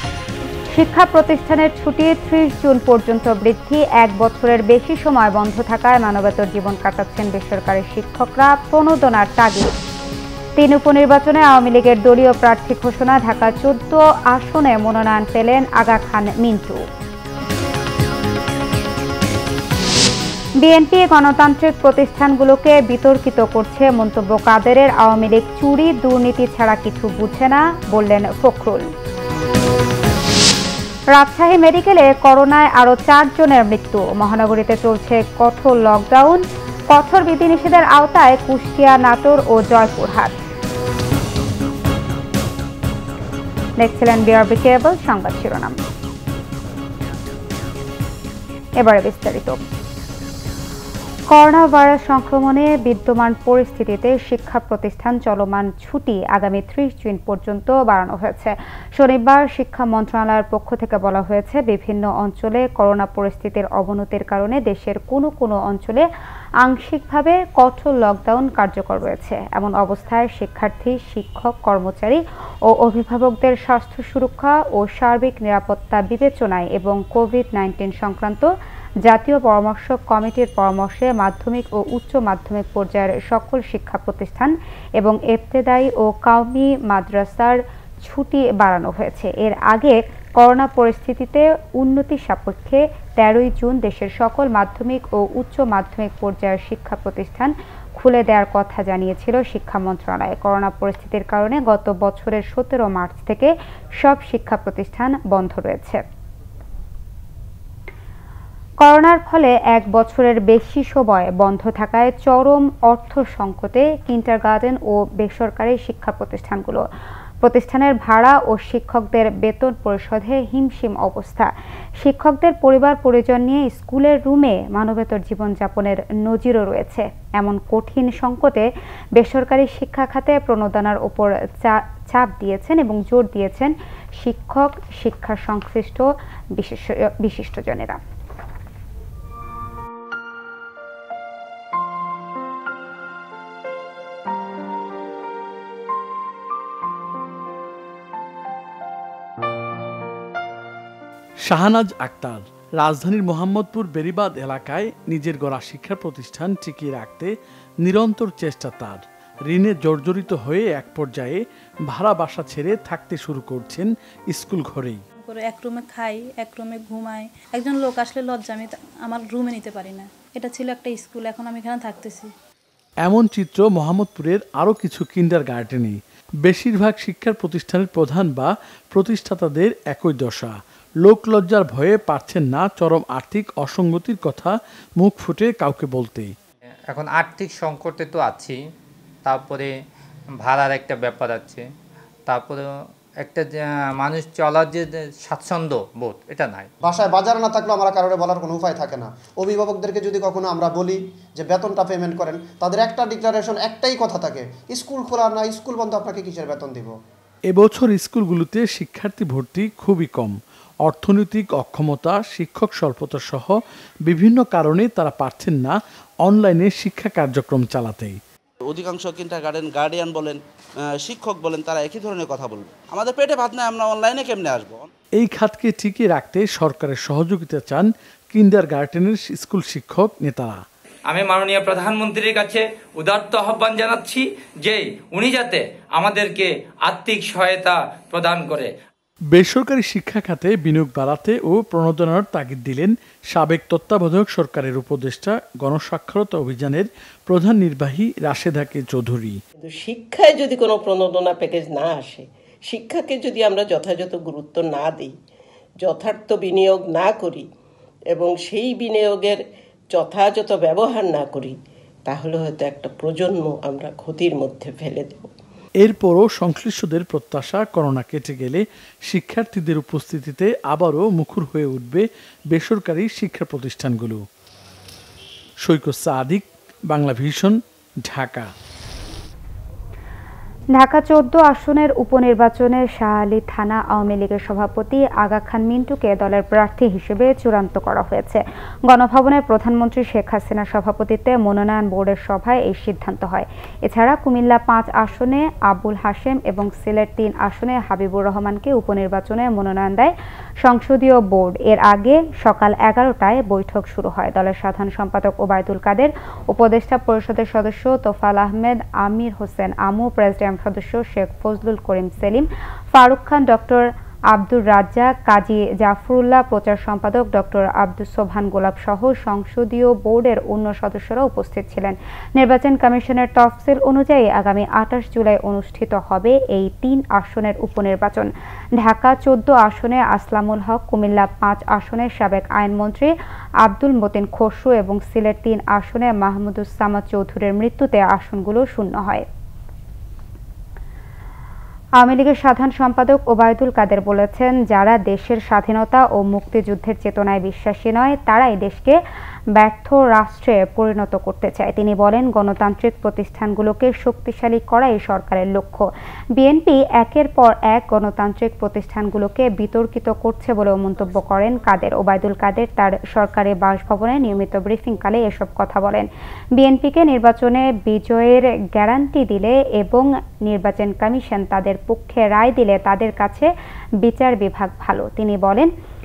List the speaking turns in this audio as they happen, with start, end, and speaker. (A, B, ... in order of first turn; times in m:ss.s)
0:00.7-0:09.8 A
0:10.6-0:16.8 A
0:20.6-0:28.9 A
0:31.1-0:40.4 A
0:43.8-0:45.8 A
0:48.8-0:49.6 A
0:51.3-1:06.1 A
1:06.6-1:12.2 A
1:12.7-1:18.5 A
1:19.0-1:46.0 A
1:48.8-1:56.9 A
1:57.4-2:18.0 A
2:31.4-2:45.0 B
2:45.2-2:52.3 C
2:53.0-3:06.4 B
3:06.9-3:08.7 D
3:09.2-3:09.8 D
3:10.4-3:11.7 D
3:12.3-3:16.7 D
3:16.8-3:27.0 E
3:27.5-3:38.2 B
3:38.7-3:40.4 F
3:40.9-3:44.9 F
3:45.2-3:50.6 B
3:51.1-3:58.7 G
3:59.3-4:09.4 B
4:09.6-4:15.1 H
4:15.8-4:17.5 H
4:18.1-4:25.3 H
4:25.8-4:34.2 B
4:35.6-4:38.5 B
4:40.8-5:39.3 A
5:42.0-5:49.0 A
5:49.6-6:06.1 A
6:06.6-6:13.5 A
6:14.0-6:15.7 A